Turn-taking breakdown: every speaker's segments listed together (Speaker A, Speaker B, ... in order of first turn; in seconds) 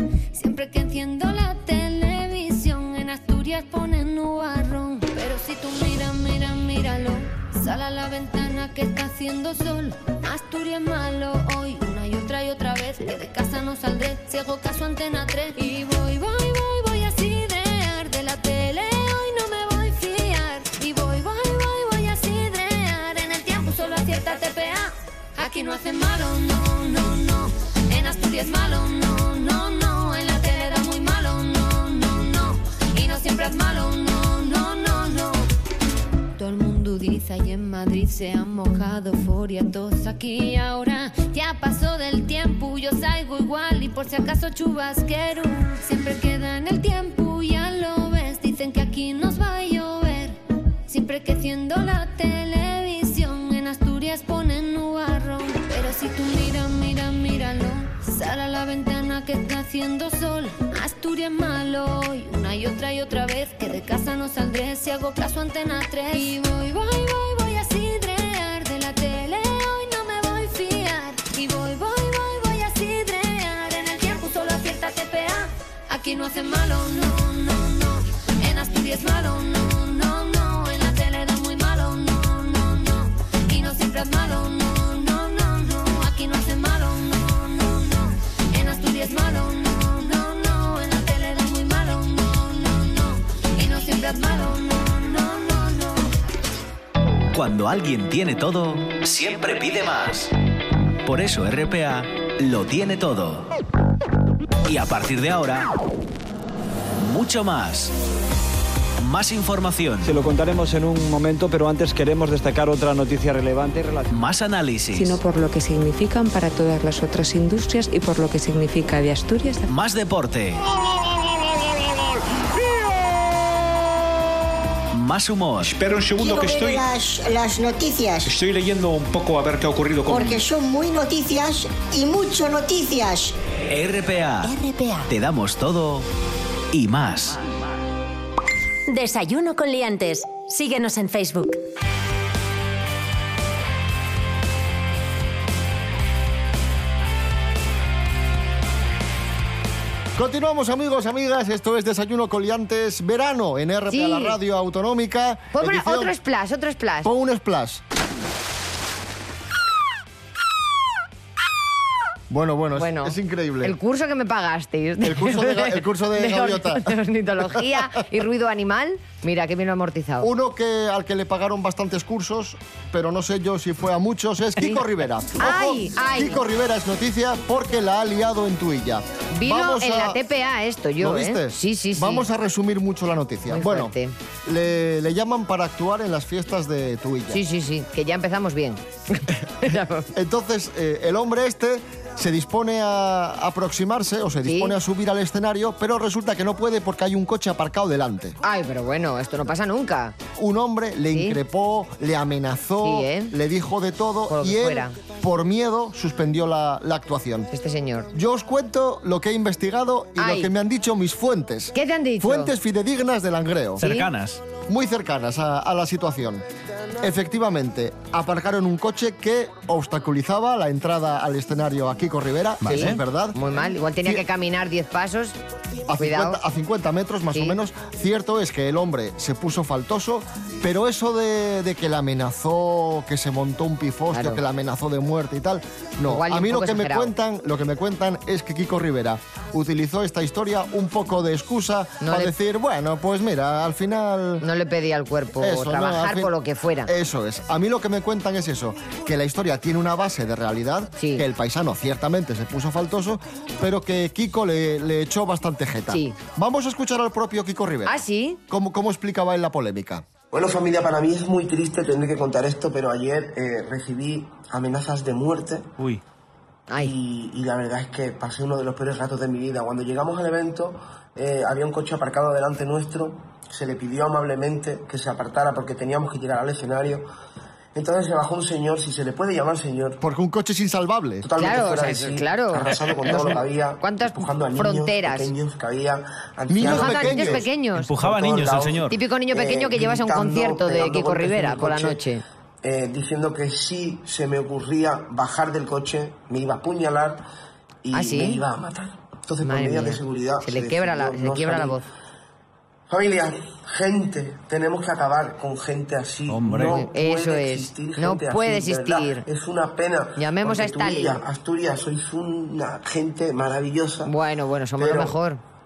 Speaker A: 0.3-35.5, 36.4-96.1
Speaker B: 97.3-100.3, 101.0-103.5, 104.6-105.7, 107.0-107.9, 109.0-110.2, 114.1-115.2, 119.7-120.6, 124.9-125.7, 133.7-136.1, 136.7-137.4, 213.8-214.4, 222.6-223.0, 287.8-288.9, 306.3-306.8
Speaker C: 110.0-114.1
Speaker D: 114.9-119.7
Speaker E: 125.6-126.8, 128.2-130.4
Speaker F: 126.2-128.3, 130.1-133.3
Speaker G: 134.7-135.0, 138.9-141.6
Speaker H: 150.1-156.1, 157.0-157.8, 162.3-163.7, 165.0-166.9, 170.2-180.2, 181.0-183.9, 184.4-187.4, 190.1-198.4, 200.3-207.5, 208.1-213.8, 214.7-216.4, 217.0-224.2, 225.9-244.4, 245.4-246.3, 246.8-260.1, 280.0-281.3, 286.5-287.4
Speaker I: 153.9-154.4, 155.5-157.1, 162.8-170.3, 175.4-176.4, 179.3-182.2, 183.5-184.1, 187.3-190.1, 194.4-194.8, 198.4-200.2, 201.1-201.4, 202.8-203.3, 204.3-204.9, 207.5-208.1, 210.2-210.5, 211.7-212.5, 213.8-214.1, 222.7-225.4, 225.9-226.4, 234.1-234.4, 236.1-237.1, 242.0-242.3, 244.4-246.9, 251.0-251.2, 255.9-256.1, 257.9-258.4, 266.7-266.9, 281.4-285.3, 286.6-287.9, 288.9-292.2, 297.9-298.4, 299.4-301.9, 306.6-309.2, 310.2-311.2, 314.1-315.4
Speaker J: 260.3-265.7, 266.8-277.1, 277.7-280.0, 281.2-287.4, 288.0-292.0, 292.6-297.2, 297.8-301.8, 302.9-314.1, 314.8-315.1